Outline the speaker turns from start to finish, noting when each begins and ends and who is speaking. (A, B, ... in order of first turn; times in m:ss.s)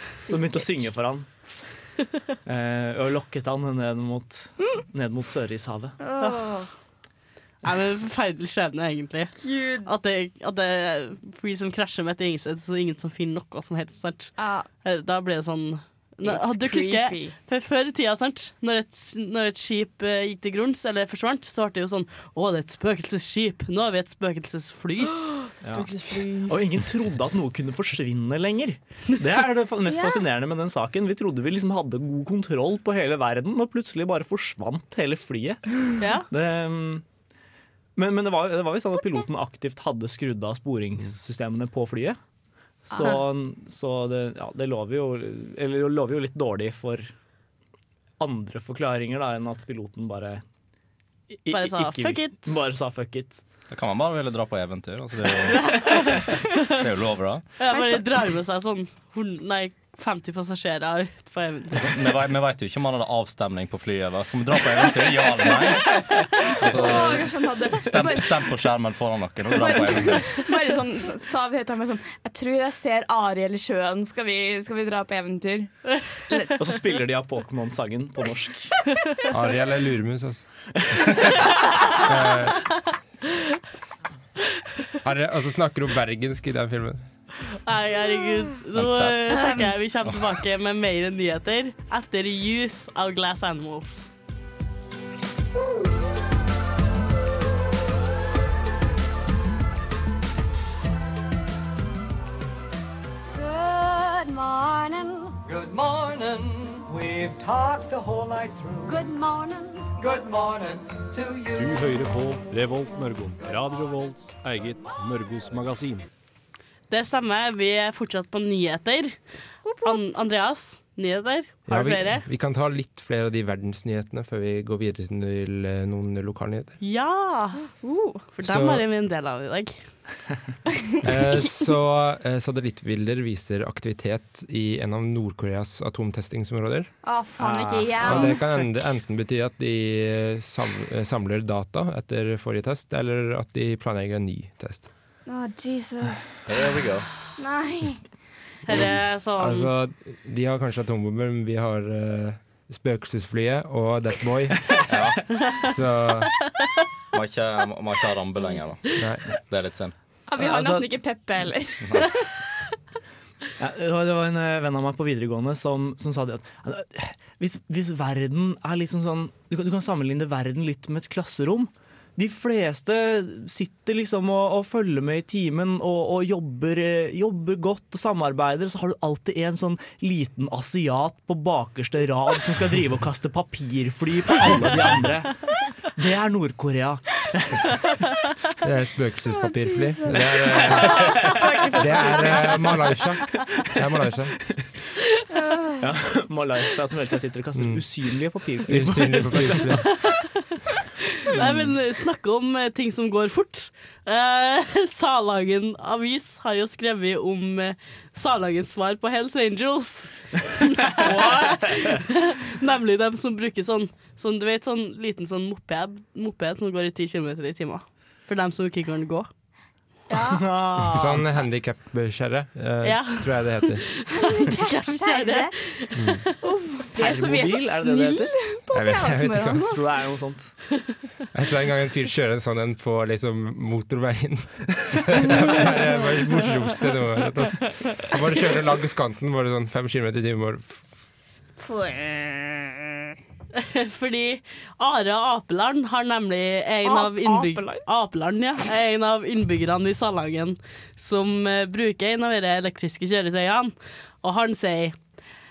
0:00.2-0:01.3 A
0:02.5-0:06.0 A
0:06.0-0:06.7 B
0:07.6-0:25.2 C
0:09.4-0:09.9 B
0:14.4-0:14.7 B
0:16.2-0:17.4 B
0:25.3-0:26.6 B
0:25.6-0:25.9 A
0:26.5-0:35.6 A
0:36.0-0:36.3 C
0:36.3-0:37.0 A
0:38.0-0:42.2 A
0:42.9-0:47.1 A
0:48.2-0:50.4 A
0:51.4-0:53.4 A
0:51.5-0:52.6 C
0:53.7-0:55.7 D
0:55.5-0:56.6 C
0:56.8-0:57.4 D
0:57.6-1:01.9 C
0:57.7-0:58.1 B
1:01.7-1:10.4 D
1:06.4-1:08.7 B
1:09.5-1:15.8 B
1:16.3-1:16.8 B
1:16.6-1:18.7 A
1:19.3-1:20.5 E
1:20.9-1:21.4 A
1:22.0-1:22.7 E
1:25.0-1:27.0 E
1:27.6-1:34.1 C
1:28.8-1:29.2 D
1:29.3-1:29.8 B
1:43.3-1:51.7 F
1:51.5-1:56.0 G
1:56.9-1:59.2 C
1:59.6-2:00.0 B
1:59.8-2:02.3 C
2:01.7-2:06.8 E
2:06.8-2:07.7 C
2:07.8-2:08.2 B
2:08.3-2:09.8 C
2:08.4-2:08.9 E
2:11.0-2:16.9 E
2:17.0-2:18.4 B
2:17.4-2:18.4 A
2:18.0-2:24.9 E
2:25.3-2:26.5 B
2:26.5-2:27.1 D
2:27.4-2:28.0 B
2:28.6-2:29.7 C
2:28.7-2:34.8 E
2:34.9-2:35.2 D
2:35.6-2:36.3 E
2:37.1-2:38.9 D
2:39.0-2:39.2 E
2:39.4-2:39.9 D
2:40.3-2:42.2 B
2:40.4-2:40.9 A
2:43.6-3:07.7 A
3:08.6-3:14.4 E
3:09.4-3:12.7 B
3:10.8-3:11.4 A
3:13.4-3:13.8 A
3:15.3-3:15.8 B
3:15.8-3:19.9 A
3:17.6-3:17.8 E
3:18.7-3:19.8 E
3:19.8-3:20.3 C
3:21.2-3:39.3 C
3:31.0-3:31.8 B
3:40.1-3:40.5 B
3:40.3-3:41.3 A
3:40.9-3:43.8 E
3:42.8-3:46.2 C
3:44.1-3:45.5 B
3:46.0-3:46.2 E
3:46.4-3:49.9 B
3:47.0-3:48.3 A
3:48.7-3:49.8 E
3:49.6-3:50.5 A
3:51.3-4:00.8 E
4:01.6-4:02.8 B
4:03.6-4:15.0 C
4:06.8-4:07.8 B